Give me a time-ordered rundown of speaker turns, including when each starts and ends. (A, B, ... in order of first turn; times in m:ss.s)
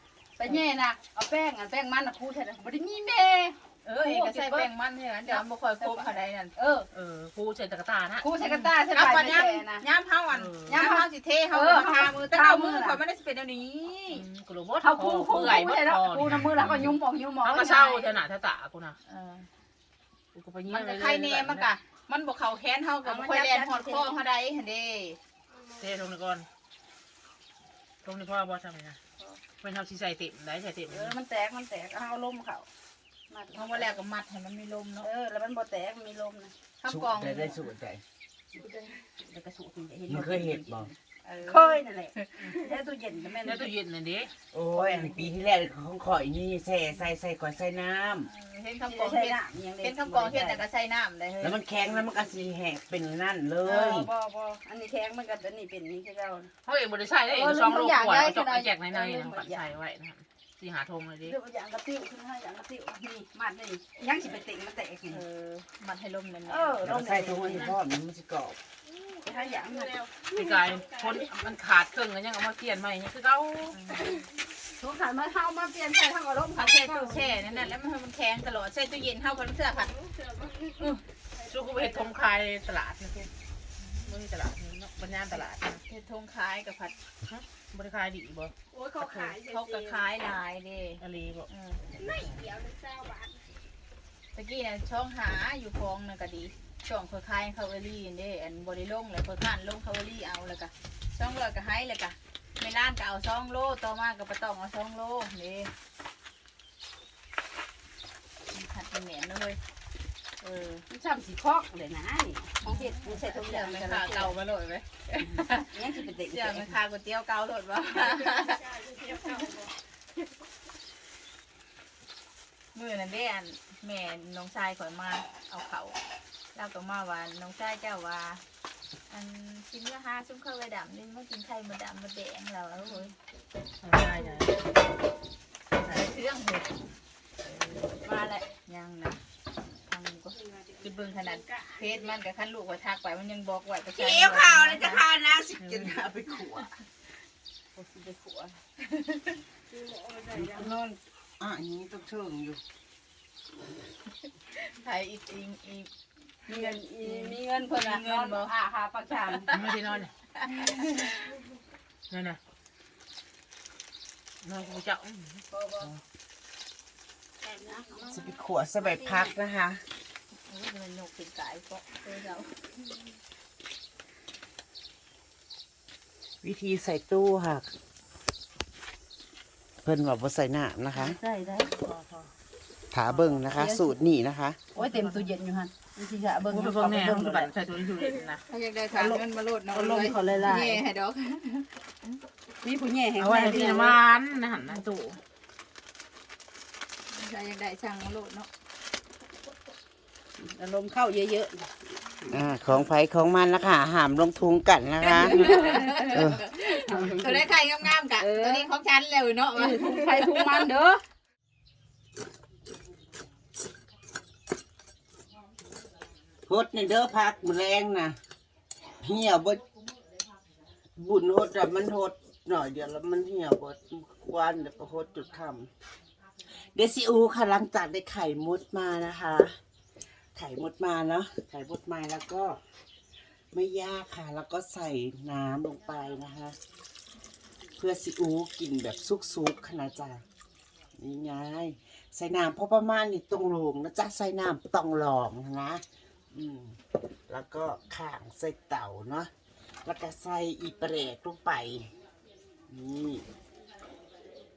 0:00.4-0:04.7 A
0:03.8-0:06.6 B
0:05.2-0:06.9 A
0:06.9-0:08.4 C
0:08.2-0:09.8 A
0:08.4-0:14.2 B
0:10.3-0:10.8 C
0:10.7-0:13.0 A
0:14.1-0:19.0 C
0:14.8-0:18.2 A
0:19.1-0:19.5 B
0:20.3-0:21.7 C
0:20.7-0:25.2 B
0:23.0-0:24.2 A
0:25.5-0:26.0 D
0:25.8-0:26.5 C
0:28.0-0:29.0 C
0:29.6-0:31.2 C
0:30.9-0:32.7 A
0:33.3-0:34.0 A
0:33.5-0:35.1 B
0:35.0-0:36.5 A
0:36.8-0:37.6 B
0:36.9-0:38.0 E
0:38.5-0:39.0 D
0:39.3-0:43.7 A
0:40.1-0:40.9 E
0:41.2-0:42.6 B
0:43.4-0:44.3 C
0:44.5-0:48.3 E
0:44.7-0:45.3 A
0:48.2-0:51.6 B
0:48.8-0:50.7 A
0:51.4-0:54.1 E
0:53.6-0:56.5 A
0:56.6-1:01.4 C
0:57.3-0:59.7 A
1:01.2-1:05.2 A
1:05.1-1:06.9 B
1:06.5-1:07.7 A
1:06.8-1:08.6 E
1:07.5-1:07.8 C
1:08.8-1:11.3 D
1:09.2-1:10.1 A
1:10.3-1:13.8 C
1:13.7-1:14.2 B
1:14.8-1:17.8 A
1:16.6-1:19.9 B
1:19.6-1:22.3 D
1:21.5-1:23.3 C
1:23.8-1:24.0 B
1:24.0-1:25.8 C
1:25.3-1:27.0 B
1:27.3-1:29.0 C
1:28.7-1:30.1 D
1:29.0-1:31.9 B
1:31.0-1:31.5 C
1:31.9-1:33.5 D
1:34.4-1:45.7 B
1:48.5-1:49.6 B
1:50.4-1:50.8 B
1:50.9-1:54.3 A
1:52.7-1:55.8 B
1:55.2-1:56.8 A
1:56.3-1:58.6 B
1:57.9-1:59.7 D
2:02.7-2:06.0 B
2:06.5-2:08.4 B
2:09.1-2:13.2 B
2:13.8-2:14.6 C
2:15.8-2:16.7 B
2:18.0-2:18.5 A
2:18.6-2:19.2 B
2:19.9-2:25.0 B
2:20.3-2:22.2 D
2:23.9-2:26.7 E
2:25.6-2:25.9 C
2:27.8-2:28.6 A
2:28.8-2:29.4 B
2:29.7-2:30.8 D
2:30.4-2:30.8 E
2:30.5-2:30.9 B
2:31.4-2:32.6 E
2:34.6-2:35.9 B
2:36.5-2:38.5 B
2:36.5-2:39.8 A
2:39.5-2:40.1 C
2:40.4-2:41.2 B
2:42.1-2:42.4 C
2:44.4-2:45.4 C
2:45.5-2:45.9 A
2:47.5-2:48.3 D
2:47.5-2:48.2 A
2:48.1-2:49.8 E
2:48.8-2:49.4 A
2:50.5-2:52.5 B
2:56.4-2:57.7 E
2:59.8-3:01.2 E
3:01.0-3:01.7 A
3:01.6-3:02.3 C
3:02.9-3:04.6 E
3:03.1-3:03.4 C
3:03.5-3:04.0 A
3:04.7-3:05.3 C
3:04.8-3:07.5 A
3:06.5-3:08.4 C
3:08.5-3:12.2 B
3:08.9-3:10.8 A
3:12.6-3:14.0 A
3:13.2-3:15.2 C
3:17.1-3:18.5 B
3:20.4-3:22.3 A
3:22.3-3:26.4 E
3:25.0-3:27.5 A
3:25.1-3:30.7 B
3:28.2-3:28.7 A
3:29.5-3:31.0 A
3:36.5-3:38.2 E
3:39.0-3:39.6 E
3:41.0-3:45.7 E
3:46.6-3:49.6 E
3:50.4-3:52.6 E
3:53.5-3:56.6 E
3:57.8-4:00.2 E
4:01.0-4:09.3 E
4:09.8-4:11.9 E
4:11.9-4:12.6 D
4:12.7-4:13.3 E